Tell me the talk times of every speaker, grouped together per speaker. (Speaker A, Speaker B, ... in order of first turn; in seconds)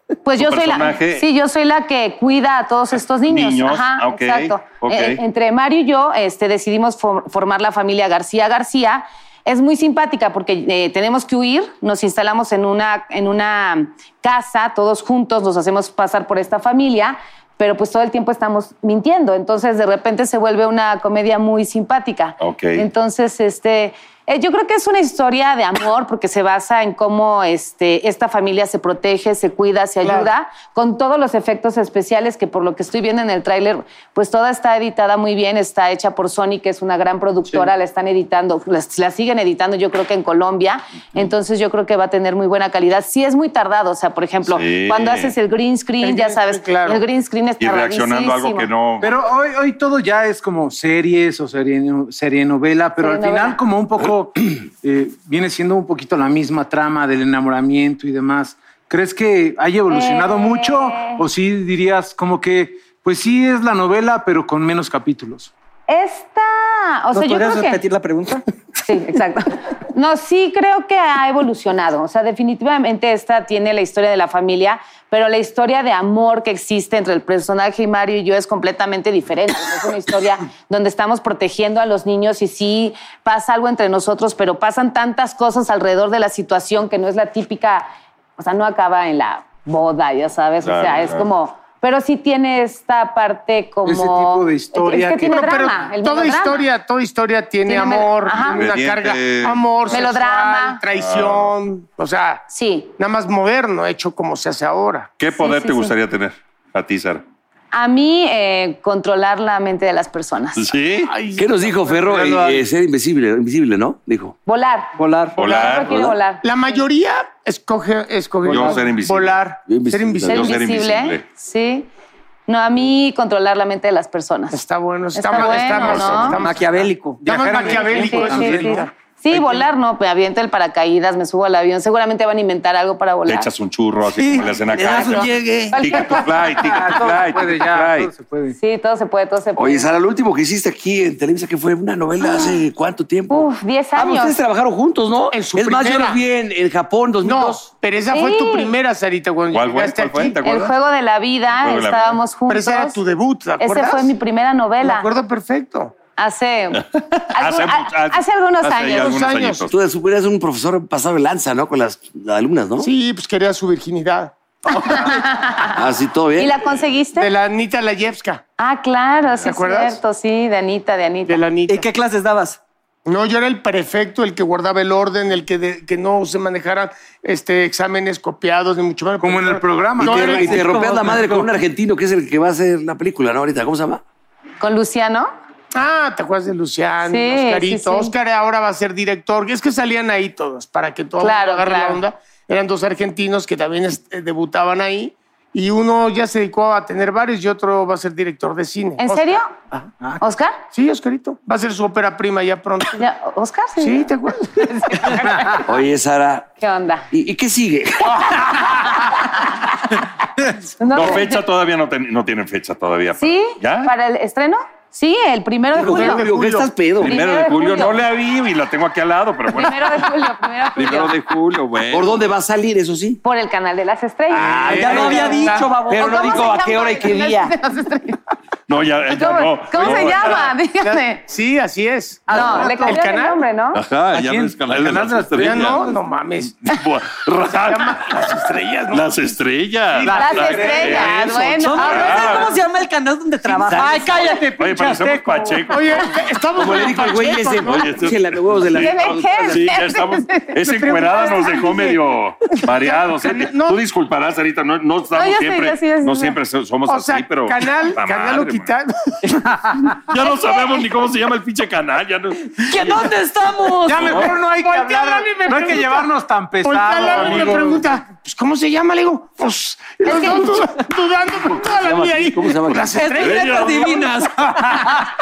Speaker A: 0.2-48.7, 53.0-53.6, 59.9-61.2, 65.9-67.8, 68.8-96.7, 97.7-98.7, 99.9-100.8, 102.5-102.9, 105.4-105.9, 107.7-110.7, 114.5-116.5, 120.3-121.9, 122.5-124.6, 125.2-126.4, 127.9-133.5, 135.7-136.3, 138.6-139.9, 142.2-142.6, 143.3-144.4, 148.1-148.7, 150.4-153.0, 153.6-155.1, 156.2-159.2, 164.8-165.8, 166.4-167.3, 168.6-171.4, 184.6-185.3, 187.1-188.1, 191.2-192.0, 199.0-199.6, 200.2-200.6, 203.0-204.1, 204.7-205.4, 206.6-207.1, 210.8-211.4, 213.2-216.3, 217.0-218.0, 219.5-221.1, 223.2-225.3, 226.0-228.2, 229.1-231.2, 232.3-233.8, 240.1-242.4, 248.7-250.6, 251.2-251.7, 255.1-256.4, 260.3-260.8, 270.0-270.6
Speaker B: 0.4-1.3, 3.3-5.2, 22.4-22.9, 44.5-45.4, 47.6-49.1, 90.6-91.3, 98.3-100.0, 100.9-101.5, 105.2-107.2, 110.6-111.1, 115.4-116.1, 118.5-119.4, 120.3-121.2, 125.7-126.4, 133.3-138.1, 149.5-150.7, 151.6-152.2, 157.4-159.7, 210.9-213.9, 217.0-220.1, 220.8-222.2, 228.7-230.5, 233.8-235.9, 236.7-238.3, 238.9-242.6, 244.6-246.2, 247.6-258.7, 260.1-263.1, 263.9-264.4, 267.1-267.6, 273.2-273.9
Speaker C: 30.0-30.3, 46.0-47.0, 95.3-105.1, 111.1-112.3, 116.4-120.5, 124.5-128.9, 145.3-146.2, 147.2-150.4, 152.5-154.2, 154.8-156.0, 158.9-159.7, 162.8-164.3, 167.2-168.4, 169.4-170.0, 171.3-171.9, 173.1-180.6, 185.8-199.9, 200.7-203.0, 203.8-205.3, 215.8-216.7, 230.9-233.4, 235.4-236.7, 237.5-239.2, 245.7-248.0, 250.6-251.9, 252.8-253.8, 256.9-259.2, 264.2-266.1, 266.6-274.0
Speaker D: 49.0-65.5, 93.8-95.5, 127.2-128.9, 136.4-138.6, 179.2-181.5, 224.5-225.7, 232.4-233.0, 234.1-235.9, 240.0-241.5, 243.7-245.9, 263.9-267.9
Speaker E: 67.1-68.4, 115.0-115.4, 126.4-127.2, 134.2-135.3, 171.7-172.6, 180.4-181.2, 224.7-226.5, 241.2-244.5, 262.6-264.2, 272.9-274.9
Speaker F: 111.4-114.4, 115.9-116.2, 119.7-120.5, 134.7-135.9, 139.6-147.7, 159.7-162.9, 165.7-166.6, 180.0-184.0, 205.7-206.5, 207.1-208.6, 215.7-217.2, 221.9-223.2, 224.3-227.6, 243.5-244.3, 246.5-249.7, 271.6-273.3